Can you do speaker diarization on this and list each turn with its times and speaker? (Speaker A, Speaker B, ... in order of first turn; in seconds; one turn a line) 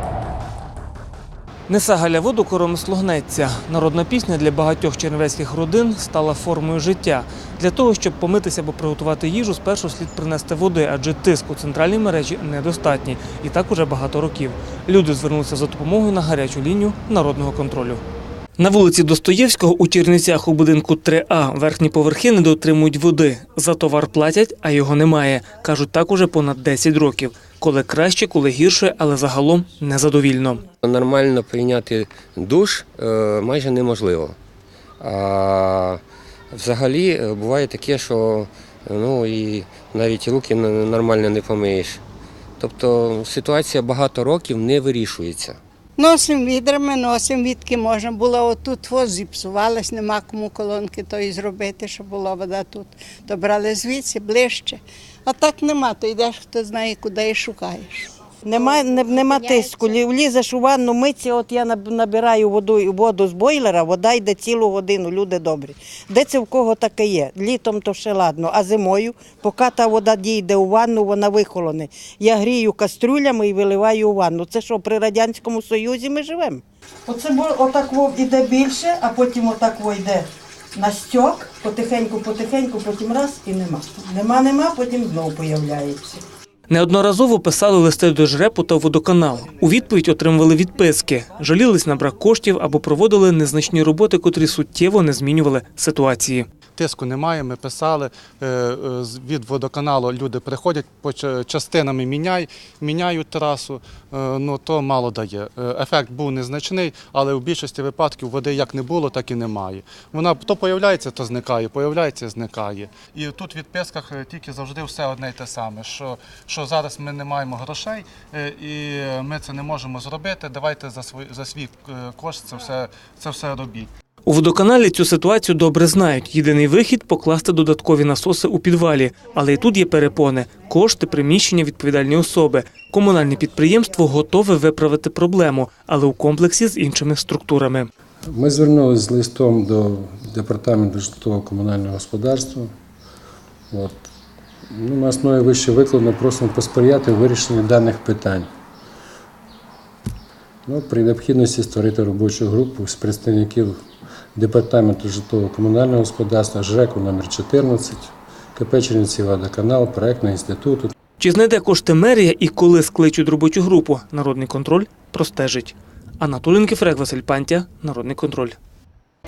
Speaker A: 1.7-18.0
Speaker A: 18.6-30.7
Speaker B: 30.8-34.4
Speaker B: 35.0-36.0
Speaker B: 36.5-42.0
Speaker B: 42.6-45.6
Speaker C: 46.0-59.8
Speaker D: 58.4-86.2
Speaker A: 86.7-96.5
Speaker E: 96.8-123.9
Speaker A: 124.3-137.9
Speaker F: 138.3-142.7
Speaker F: 143.7-144.1
Speaker F: 144.7-148.5
Speaker F: 150.7-153.8
Speaker F: 154.3-160.9
Speaker A: 161.2-168.6